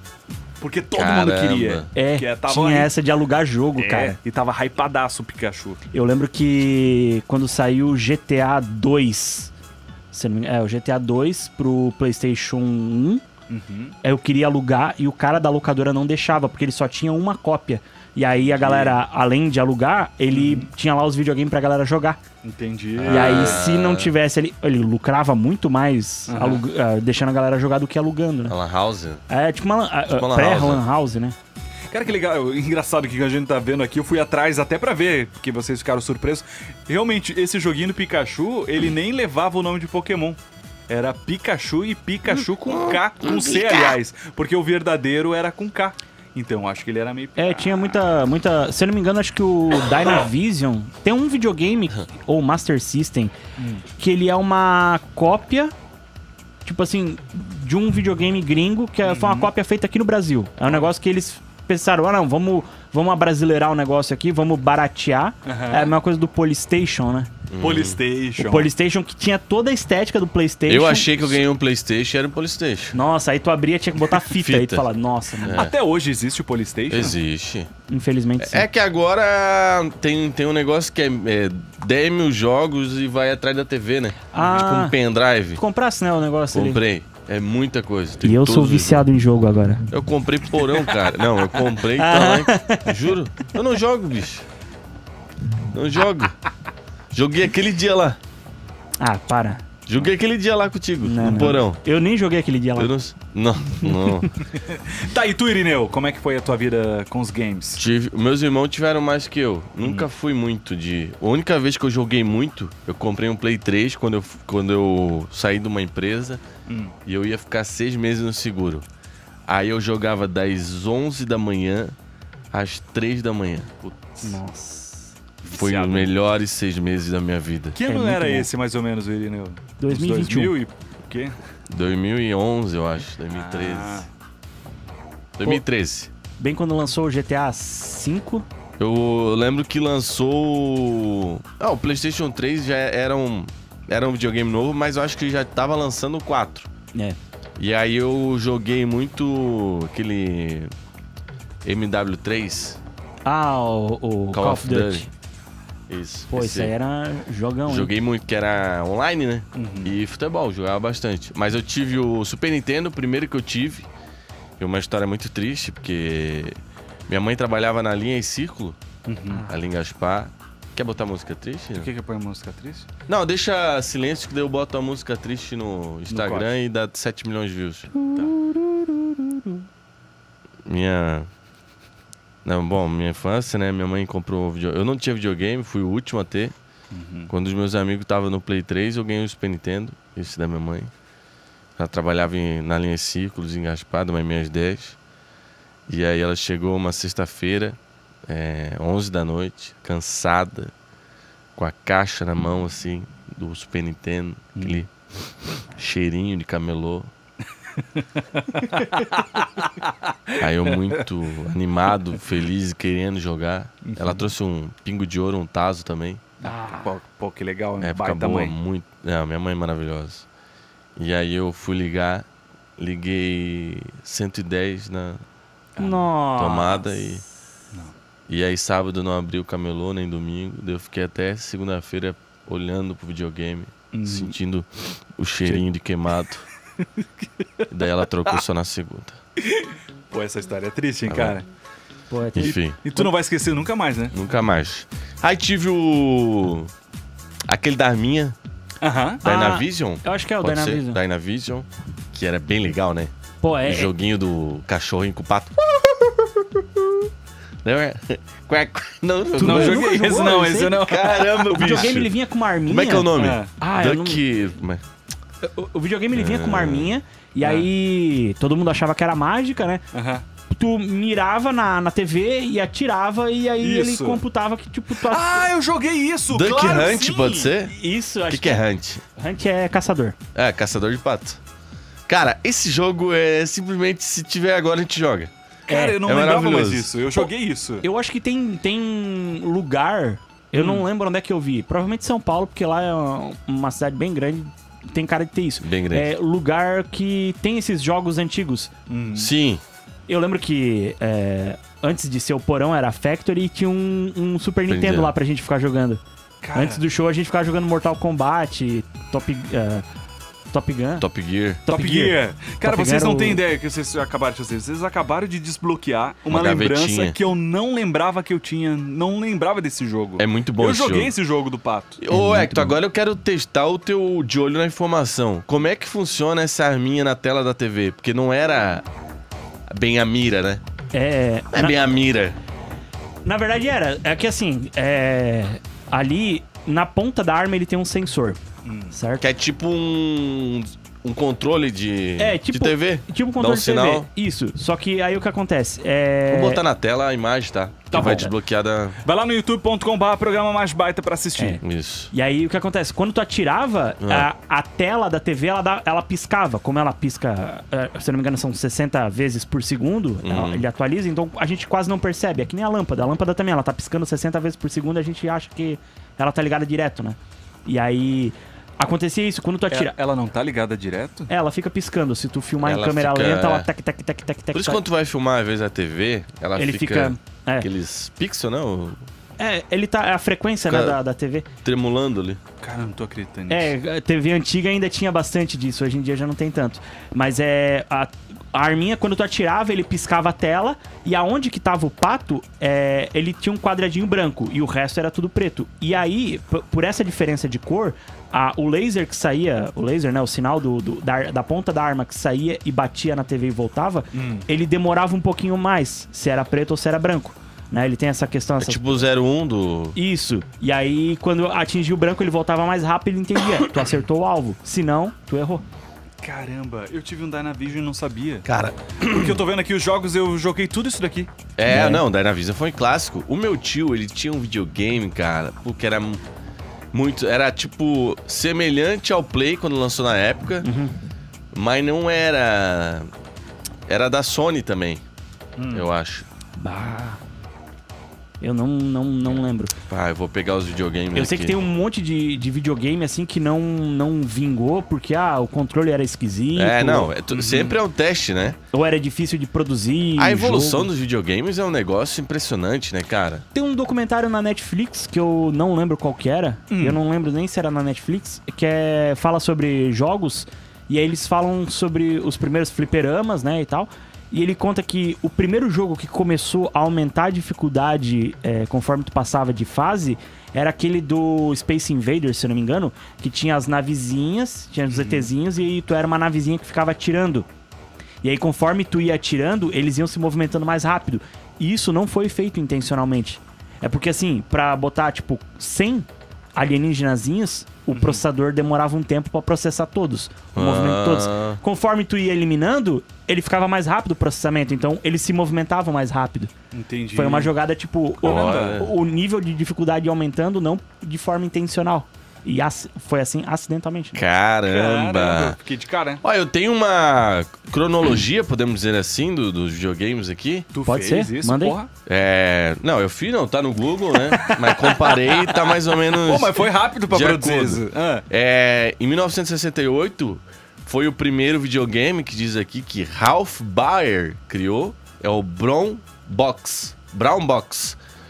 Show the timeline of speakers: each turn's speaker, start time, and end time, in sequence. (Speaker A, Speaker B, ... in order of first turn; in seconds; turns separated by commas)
Speaker A: 0.6-2.9, Speaker B: 1.0-1.9, Speaker C: 1.9-4.2, Speaker A: 3.8-5.8, Speaker C: 5.9-9.5, Speaker C: 10.1-13.2, Speaker A: 13.5-14.0, Speaker C: 14.0-22.2, Speaker A: 18.5-19.0, Speaker A: 20.3-20.7, Speaker A: 22.4-23.6, Speaker B: 23.0-24.1, Speaker C: 23.1-28.6, Speaker A: 26.3-26.6, Speaker B: 28.5-29.2, Speaker C: 29.3-31.4, Speaker B: 30.1-30.8, Speaker A: 31.9-40.4, Speaker A: 40.9-48.0, Speaker C: 47.4-53.3, Speaker A: 53.6-53.9, Speaker C: 54.0-55.7, Speaker C: 56.6-67.3, Speaker A: 59.0-59.5, Speaker A: 60.6-60.9, Speaker A: 65.5-66.0, Speaker B: 67.5-68.0, Speaker A: 67.6-68.7, Speaker C: 68.4-71.4, Speaker B: 70.7-73.0, Speaker C: 72.9-75.7, Speaker B: 74.3-74.9, Speaker B: 75.4-75.8, Speaker A: 75.5-77.2, Speaker B: 76.9-77.7, Speaker C: 77.9-78.7, Speaker B: 78.4-85.6, Speaker C: 84.3-85.0, Speaker C: 85.6-86.8, Speaker B: 86.5-89.1, Speaker C: 88.2-89.9, Speaker B: 89.9-94.5, Speaker C: 91.9-92.9, Speaker B: 95.7-96.4, Speaker B: 97.1-98.2, Speaker C: 99.0-99.7, Speaker B: 99.9-101.8, Speaker C: 101.0-102.9, Speaker B: 102.8-104.3, Speaker A: 104.6-107.8, Speaker B: 107.8-116.4, Speaker A: 116.7-117.0, Speaker B: 117.0-118.9, Speaker B: 119.5-122.0, Speaker B: 122.5-123.7, Speaker A: 123.8-124.4, Speaker C: 124.2-125.1, Speaker A: 125.4-126.2, Speaker B: 125.5-127.8, Speaker A: 127.8-131.4, Speaker C: 127.9-128.5, Speaker C: 129.8-130.6, Speaker B: 131.7-134.1, Speaker A: 133.3-134.1, Speaker B: 135.4-136.1, Speaker C: 136.4-138.5, Speaker B: 138.8-146.7, Speaker B: 147.6-150.7, Speaker B: 151.6-152.8, Speaker C: 153.3-155.1, Speaker B: 154.3-155.1, Speaker B: 155.9-156.7, Speaker C: 156.3-157.9, Speaker B: 157.7-163.9, Speaker A: 159.6-159.9, Speaker B: 164.6-168.8, Speaker A: 169.1-169.4, Speaker C: 169.3-169.6, Speaker B: 169.5-171.9, Speaker A: 171.7-172.9, Speaker B: 173.1-178.3, Speaker A: 176.1-176.5, Speaker C: 177.9-179.6, Speaker B: 180.7-181.3, Speaker B: 182.4-186.6, Speaker A: 186.9-187.3, Speaker B: 187.3-190.9, Speaker B: 191.8-195.0, Speaker B: 195.9-200.7, Speaker B: 201.6-204.9, Speaker A: 204.6-204.8, Speaker B: 205.5-207.1, Speaker A: 207.8-210.9, Speaker B: 210.4-216.2, Speaker A: 213.8-214.2, Speaker C: 216.4-216.9, Speaker A: 216.5-218.6, Speaker B: 217.8-220.3, Speaker B: 221.0-222.3, Speaker B: 222.8-225.2, Speaker A: 225.8-226.0, Speaker C: 225.8-226.9, Speaker B: 226.4-227.2, Speaker B: 228.3-236.4, Speaker A: 233.9-234.4, Speaker B: 237.7-239.2, Speaker A: 239.4-241.5, Speaker B: 241.1-241.4, Speaker C: 242.1-243.1, Speaker B: 242.4-242.8, Speaker A: 242.4-244.2, Speaker B: 244.1-246.7, Speaker B: 247.5-248.4, Speaker A: 248.8-249.2, Speaker B: 249.2-253.1, Speaker C: 249.2-251.0, Speaker C: 253.4-253.9, Speaker B: 253.6-257.0, Speaker B: 257.6-259.8, Speaker C: 259.4-260.8, Speaker A: 259.4-261.9, Speaker B: 260.8-262.1, Speaker C: 261.5-264.2, Speaker B: 262.7-264.8, Speaker A: 263.1-263.5, Speaker C: 265.4-269.9, Speaker B: 266.1-267.0, Speaker A: 267.4-267.7, Speaker A: 269.9-270.2, Speaker C: 270.5-275.5, Speaker A: 273.6-274.2, Speaker A: 275.0-277.6, Speaker B: 276.3-277.7, Speaker C: 277.6-280.2, Speaker B: 278.3-279.0, Speaker B: 280.4-281.4, Speaker B: 282.1-285.3, Speaker A: 285.7-287.9, Speaker C: 285.7-286.0, Speaker B: 286.0-286.9, Speaker C: 287.8-298.7, Speaker A: 290.6-290.9, Speaker B: 295.6-296.1, Speaker A: 298.9-299.3, Speaker B: 299.1-299.6, Speaker C: 300.1-306.0, Speaker B: 304.7-305.1, Speaker A: 306.4-306.8, Speaker C: 306.6-309.9, Speaker C: 310.5-311.1, Speaker B: 311.0-311.6, Speaker C: 311.7-313.4, Speaker A: 311.7-322.0, Speaker B: 316.3-317.2, Speaker B: 320.2-321.1, Speaker B: 322.0-328.9, Speaker C: 322.1-322.8, Speaker B: 329.7-330.6, Speaker C: 330.9-331.8, Speaker B: 331.5-332.4, Speaker C: 333.2-338.4, Speaker A: 338.6-338.9, Speaker C: 338.9-339.3, Speaker B: 339.2-344.1, Speaker C: 342.2-346.6, Speaker B: 346.3-349.0, Speaker C: 347.9-348.3, Speaker A: 347.9-348.3, Speaker A: 349.0-351.6, Speaker B: 351.6-352.1, Speaker C: 352.1-369.9, Speaker B: 354.0-354.3, Speaker B: 360.2-360.6, Speaker A: 369.7-371.3, Speaker C: 371.3-374.8, Speaker B: 372.6-373.7, Speaker B: 374.5-379.0, Speaker C: 376.6-377.7, Speaker C: 379.4-381.5, Speaker B: 380.7-381.0, Speaker B: 381.6-382.4, Speaker A: 382.6-383.7, Speaker C: 383.5-409.0, Speaker A: 404.1-404.5, Speaker B: 408.6-410.0, Speaker C: 409.9-415.6, Speaker A: 416.2-418.5, Speaker B: 418.4-419.4, Speaker A: 419.0-421.3, Speaker B: 421.6-426.2, Speaker C: 421.7-422.0, Speaker B: 426.9-430.7, Speaker C: 430.6-430.9, Speaker B: 431.5-433.1, Speaker B: 433.9-435.0, Speaker A: 435.6-435.9, Speaker B: 435.7-436.3, Speaker C: 436.6-437.2, Speaker C: 438.4-439.7, Speaker B: 439.9-441.6, Speaker C: 441.1-447.1, Speaker B: 446.6-448.6, Speaker A: 447.3-447.8, Speaker C: 448.7-450.9, Speaker B: 450.2-453.5, Speaker C: 453.5-477.5, Speaker A: 456.7-457.0, Speaker A: 474.9-475.3, Speaker C: 478.2-496.5, Speaker A: 487.9-488.2, Speaker B: 490.6-491.6, Speaker A: 496.7-497.5, Speaker C: 497.1-504.2, Speaker A: 498.2-498.9, Speaker B: 498.2-498.9, Speaker B: 504.1-505.6, Speaker A: 504.7-506.2, Speaker B: 506.2-510.7, Speaker A: 510.7-511.9, Speaker C: 510.9-511.8, Speaker B: 512.1-528.0, Speaker A: 514.3-518.3